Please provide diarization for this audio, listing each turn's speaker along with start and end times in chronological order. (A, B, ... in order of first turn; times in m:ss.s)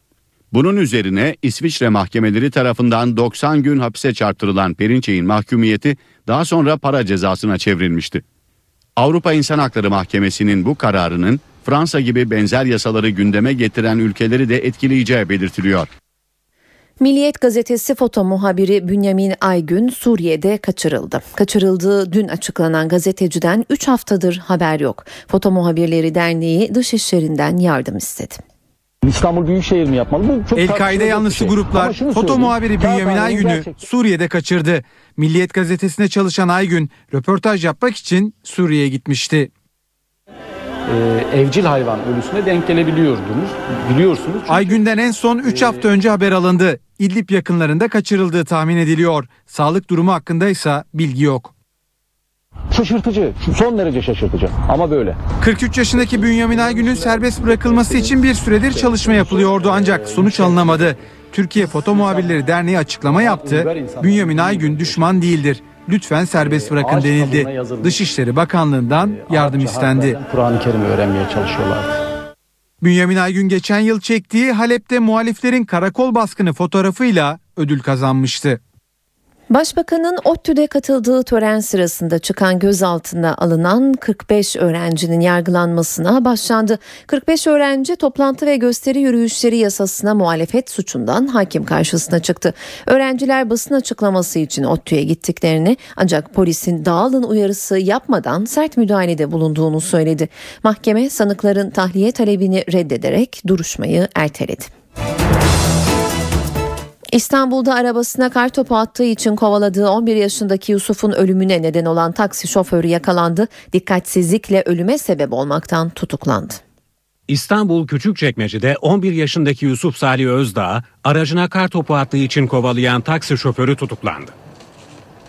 0:00.5-0:08.2 A
0:09.0-0:15.9 A
0:17.0-0:28.4 B
0:29.0-0:33.8 C
0:30.5-0:39.5 D
0:40.9-0:44.8 C
0:44.5-0:51.5 D
0:45.4-0:45.9 C
0:52.7-0:55.2 C
0:55.4-1:10.2 D
0:56.0-1:01.0 C
1:01.7-1:02.4 C
1:03.1-1:05.2 C
1:06.3-1:08.1 C
1:08.8-1:12.0 C
1:12.8-1:18.6 D
1:19.5-1:44.7 B
1:47.1-1:56.6 B
1:57.3-2:04.3 E